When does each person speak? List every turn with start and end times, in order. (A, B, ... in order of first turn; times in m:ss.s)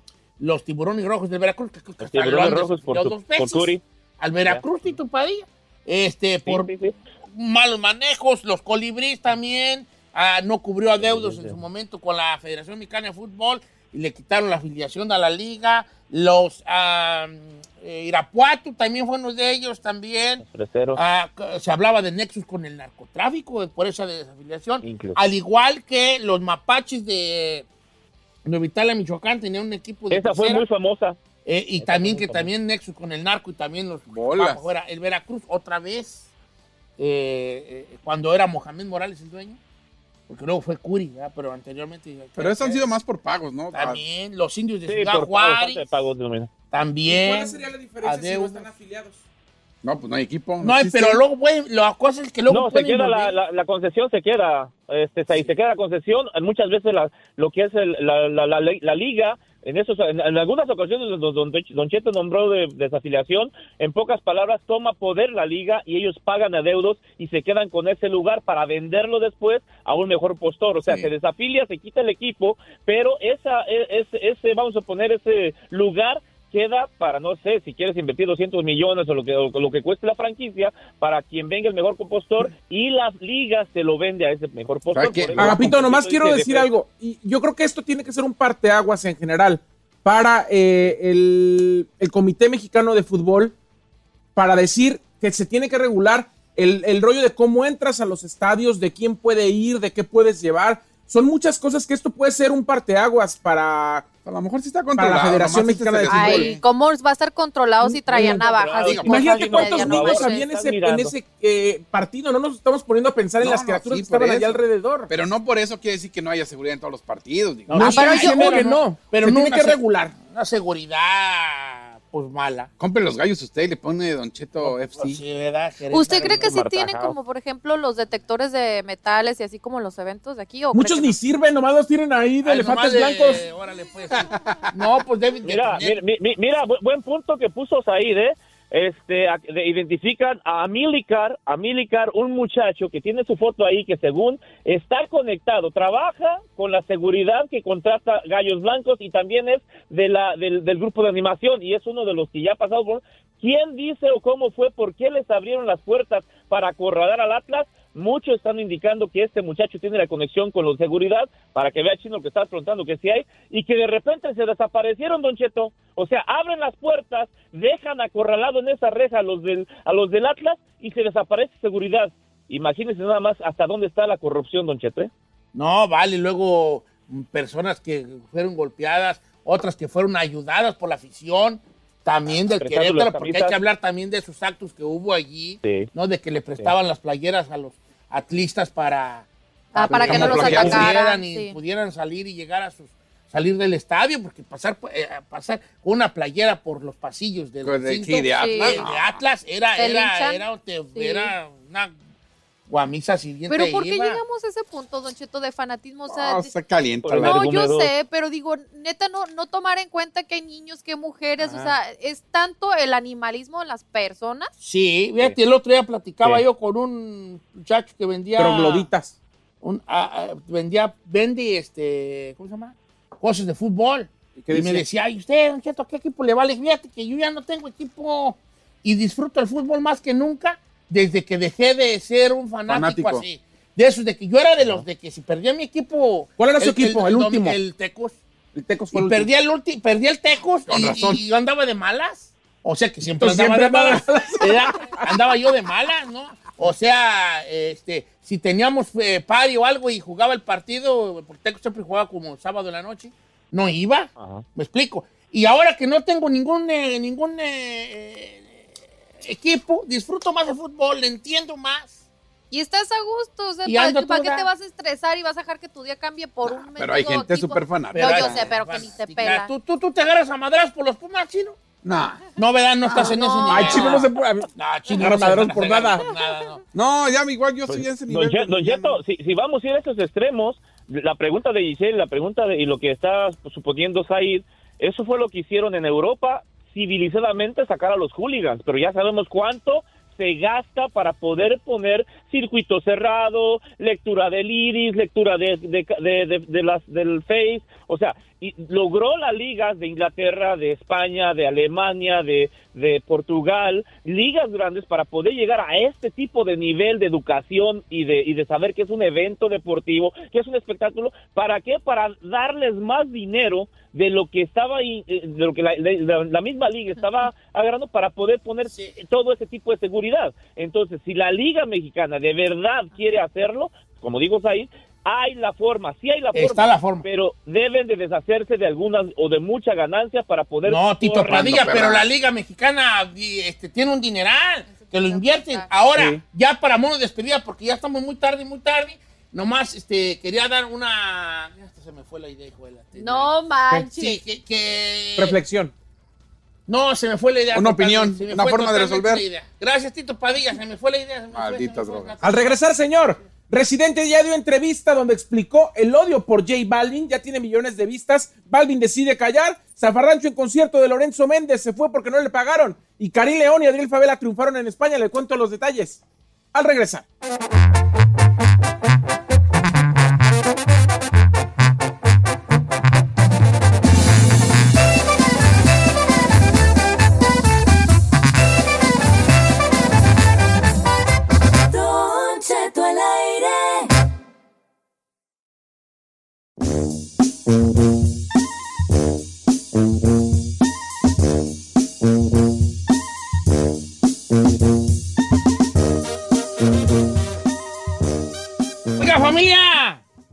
0:00.4-0:06.7 A
0:02.0-0:03.8 B
0:06.4-0:06.9 B
0:07.3-0:20.4 A
0:11.0-0:11.6 B
0:20.4-0:21.0 B
0:20.9-0:27.6 A
0:24.8-0:25.2 B
0:28.4-0:30.6 A
0:30.1-0:31.2 B
0:31.4-0:36.2 A
0:31.8-0:32.5 B
0:34.1-0:34.6 C
0:37.0-0:39.6 A
0:40.3-0:42.9 A
0:42.4-0:44.0 C
0:43.7-0:45.8 A
0:44.9-0:46.5 B
0:46.7-0:48.6 A
0:47.1-0:49.2 D
0:49.8-0:51.2 C
0:50.6-0:53.4 A
0:52.5-1:26.7 B
1:10.8-1:11.1 C
1:24.9-1:25.8 C
1:25.4-1:33.5 D
1:34.4-1:44.1 D
1:44.2-1:46.6 C
1:45.0-1:46.5 D
1:46.1-1:50.4 E
1:48.1-1:48.4 D
1:48.1-1:51.1 B
1:49.0-1:55.1 D
1:53.4-1:58.1 C
1:57.7-2:02.7 A
1:57.7-2:00.0 D
1:57.8-1:58.8 E
2:02.8-2:05.2 C
2:04.6-2:06.5 A
2:05.9-2:11.2 E
2:06.4-2:07.2 B
2:10.7-2:13.4 D
2:12.4-2:16.0 A
2:15.4-2:55.1 B
2:55.5-3:09.3 A
3:02.5-3:03.6 B
3:05.6-3:05.9 B
3:09.7-3:11.5 E
3:09.8-3:10.9 C
3:09.8-3:21.9 A
3:17.6-3:19.2 C
3:18.3-3:18.8 E
3:19.8-3:20.4 E
3:20.9-3:21.3 E
3:22.7-3:24.2 A
3:23.5-3:26.5 E
3:26.1-3:27.4 C
3:27.0-3:27.9 B
3:27.2-3:34.5 E
3:34.6-3:38.9 A
3:38.4-3:39.1 D
3:39.6-3:58.2 A
3:44.4-3:44.8 D
3:52.7-3:53.2 C
3:56.4-3:57.6 D
3:58.5-3:59.3 D
3:58.9-4:18.7 A
4:00.7-4:01.2 C
4:03.2-4:05.0 D
4:14.2-4:14.4 B
4:19.2-4:22.0 A
4:22.5-4:29.5 E
4:23.6-4:24.5 A
4:26.4-4:28.5 C
4:27.9-4:31.6 A
4:31.8-4:32.2 C
4:32.4-4:36.6 A
4:32.8-4:33.1 C
4:33.0-4:34.0 E
4:33.5-4:36.0 D
4:36.7-4:39.0 C
4:37.7-5:31.9 B
5:18.6-5:18.9 A
5:26.3-5:27.0 A
5:30.6-5:43.3 A
5:31.3-5:32.1 C
5:34.7-5:35.7 E
5:35.9-5:36.2 D
5:43.0-5:44.2 E
5:43.9-5:45.4 A
5:45.2-5:45.7 D
5:46.7-5:52.6 A
5:47.5-5:49.2 C
5:51.3-5:52.1 C
5:52.2-6:06.0 D
6:06.5-6:07.0 D
6:21.7-6:23.9 F
6:39.0-6:40.0 A